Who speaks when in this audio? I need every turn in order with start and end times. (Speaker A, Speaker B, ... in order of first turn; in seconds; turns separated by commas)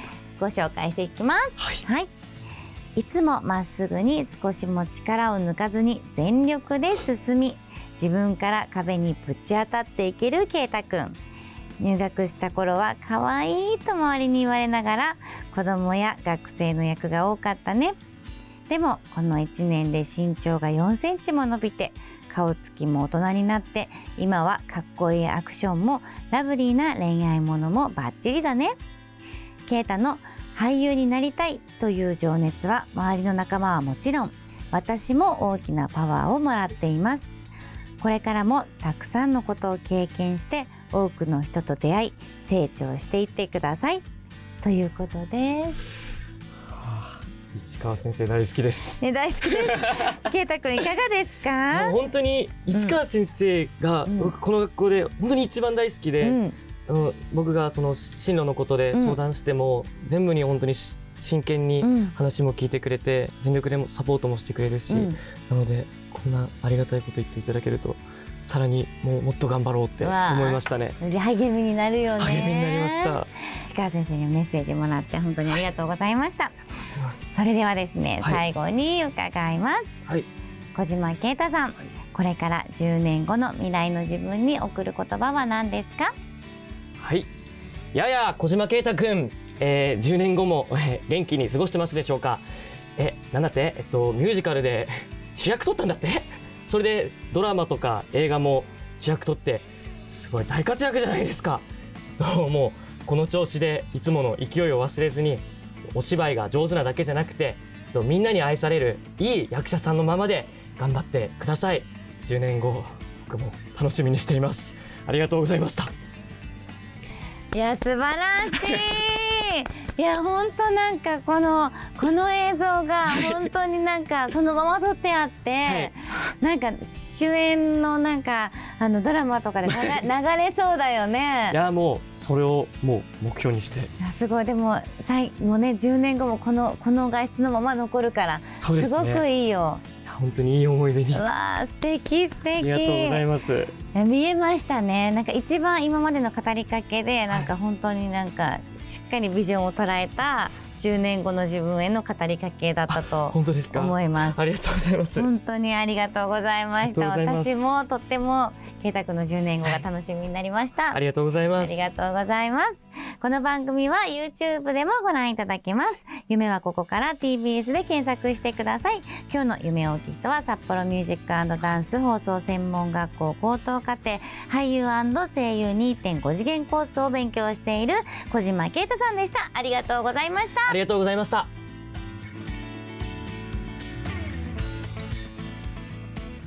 Speaker A: 0.4-2.1, Speaker B: 1.6-1.8, Speaker A: 2.9-11.2, Speaker A: 11.8-17.9, Speaker A: 18.7-28.8, Speaker A: 29.7-37.4, Speaker A: 38.0-44.0, Speaker A: 44.6-45.8, Speaker B: 46.7-50.3, Speaker A: 49.0-52.0, Speaker B: 51.7-71.0, Speaker A: 52.7-53.0, Speaker A: 54.1-54.3, Speaker A: 56.2-56.6, Speaker A: 58.9-59.2, Speaker A: 61.8-62.1, Speaker A: 64.9-65.2, Speaker A: 70.0-76.6, Speaker B: 72.2-73.3, Speaker B: 76.8-77.3, Speaker A: 77.2-80.0, Speaker A: 80.8-86.1, Speaker B: 87.0-87.3, Speaker B: 87.9-101.7, Speaker B: 102.2-115.9, Speaker A: 117.5-131.6, Speaker B: 118.5-118.8, Speaker B: 125.6-125.9, Speaker B: 129.7-130.0, Speaker B: 131.5-133.9, Speaker A: 134.0-139.8, Speaker B: 138.6-139.2, Speaker B: 140.1-141.2, Speaker A: 141.1-143.2, Speaker B: 142.6-143.8, Speaker A: 143.9-154.4, Speaker B: 152.9-155.3, Speaker A: 155.2-161.0, Speaker B: 156.8-157.8, Speaker B: 160.9-162.0, Speaker A: 161.6-180.8, Speaker B: 180.7-181.5